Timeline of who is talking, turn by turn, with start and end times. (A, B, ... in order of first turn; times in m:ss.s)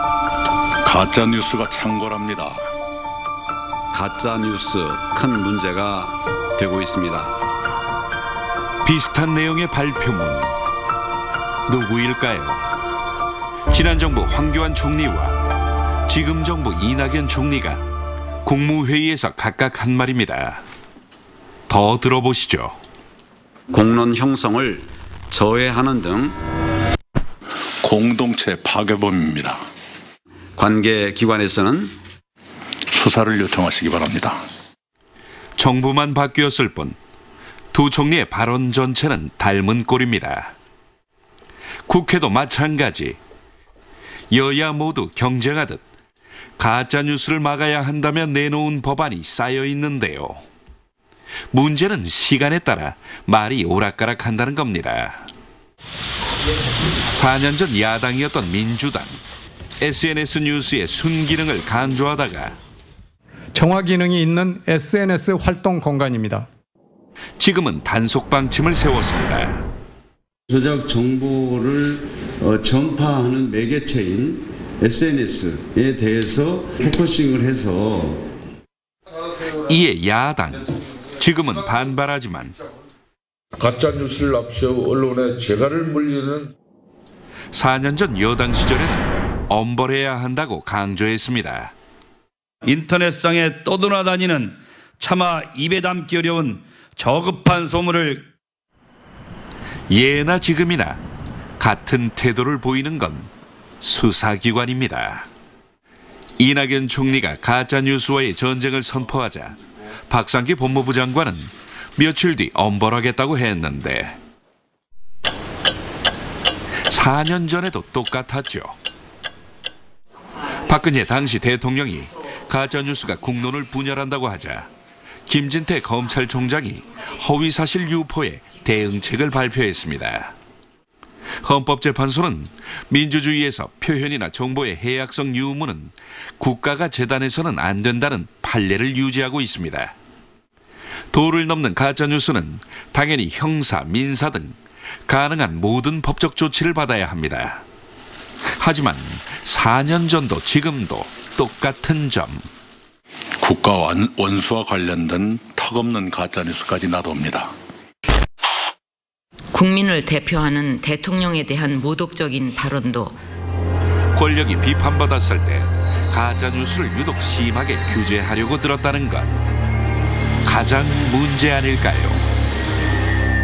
0:00.8-0:02.6 A
0:03.9-0:07.3 B
0:08.8-0:10.5 C
0:11.7-0:12.6 C
0:13.7-0:15.4 C
0:16.1-0:17.8 C
0:18.4-0:20.6 C
0:21.7-0:22.8 C
0:23.7-0:26.4 B
0:27.8-0:29.6 A
0:30.6-0:32.0 B
0:32.9-0:34.4 A
0:35.6-0:37.0 C
0:37.7-0:40.5 C
0:41.9-0:43.2 C
0:44.3-0:45.8 C
0:46.6-0:50.4 C
0:51.5-0:55.3 C
0:57.1-0:59.2 C
0:59.8-1:02.6 C
1:03.5-1:06.5 D
1:07.4-1:09.6 C
1:10.5-1:18.2 E
1:19.6-1:22.6 C
1:23.6-1:26.5 F
1:27.5-1:31.7 C
1:32.6-1:38.3 G
1:39.9-1:41.0 C
1:41.6-1:43.3 C
1:43.8-1:45.3 C
1:46.4-1:49.6 C
1:50.1-1:54.2 C
1:56.9-1:58.8 C
2:00.6-2:04.7 C
2:05.3-2:10.3 C
2:11.4-2:19.9 C
2:21.1-2:27.6 C
2:28.6-2:32.5 C
2:33.4-2:37.5 A
2:39.5-2:43.2 H
2:44.2-2:49.4 C
2:50.4-2:52.3 C